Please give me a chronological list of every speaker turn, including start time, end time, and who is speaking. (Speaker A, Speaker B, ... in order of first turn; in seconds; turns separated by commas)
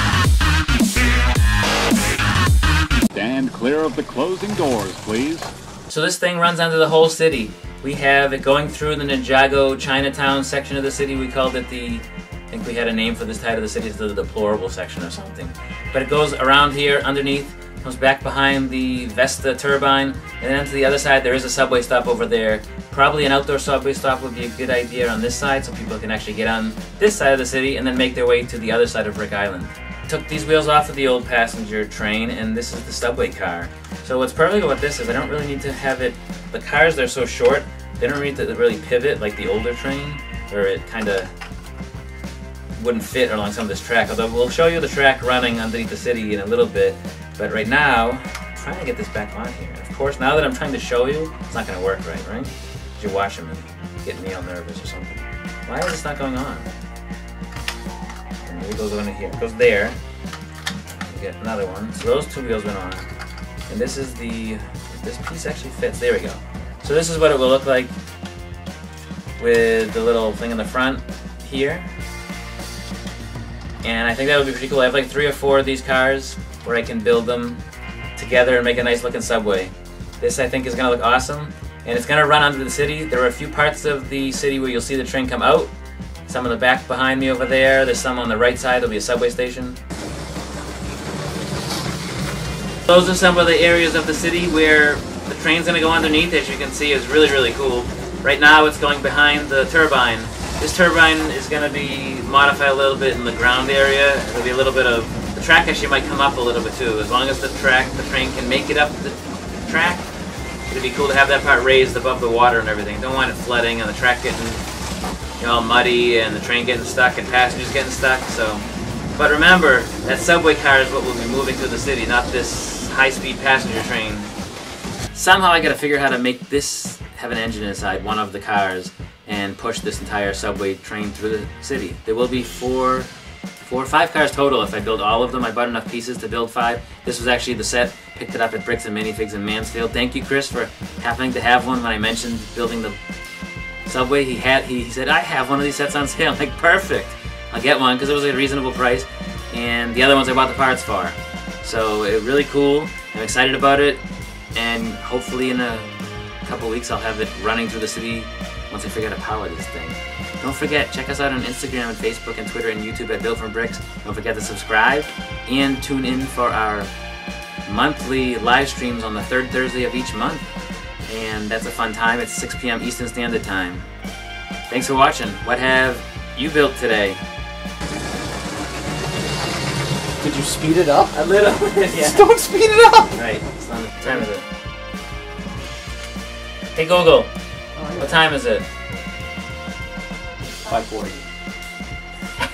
Speaker A: 3.1-5.5, Speaker B: 5.9-41.3, Speaker B: 42.8-56.7, Speaker B: 58.5-60.0, Speaker B: 61.0-63.1, Speaker B: 63.7-67.9, Speaker B: 69.4-71.9, Speaker B: 73.8-77.6, Speaker B: 78.2-85.7, Speaker B: 86.3-89.8, Speaker B: 92.9-110.0, Speaker B: 110.7-114.6, Speaker B: 115.4-124.3, Speaker B: 125.1-143.0, Speaker B: 143.8-154.0, Speaker B: 154.6-166.9, Speaker B: 167.7-170.5, Speaker B: 171.1-173.9, Speaker B: 174.7-177.2, Speaker C: 180.2-181.2, Speaker B: 181.1-182.2, Speaker C: 181.9-183.1, Speaker B: 183.1-184.4, Speaker B: 186.7-187.3, Speaker C: 187.8-188.2, Speaker B: 188.0-188.7, Speaker C: 190.5-191.2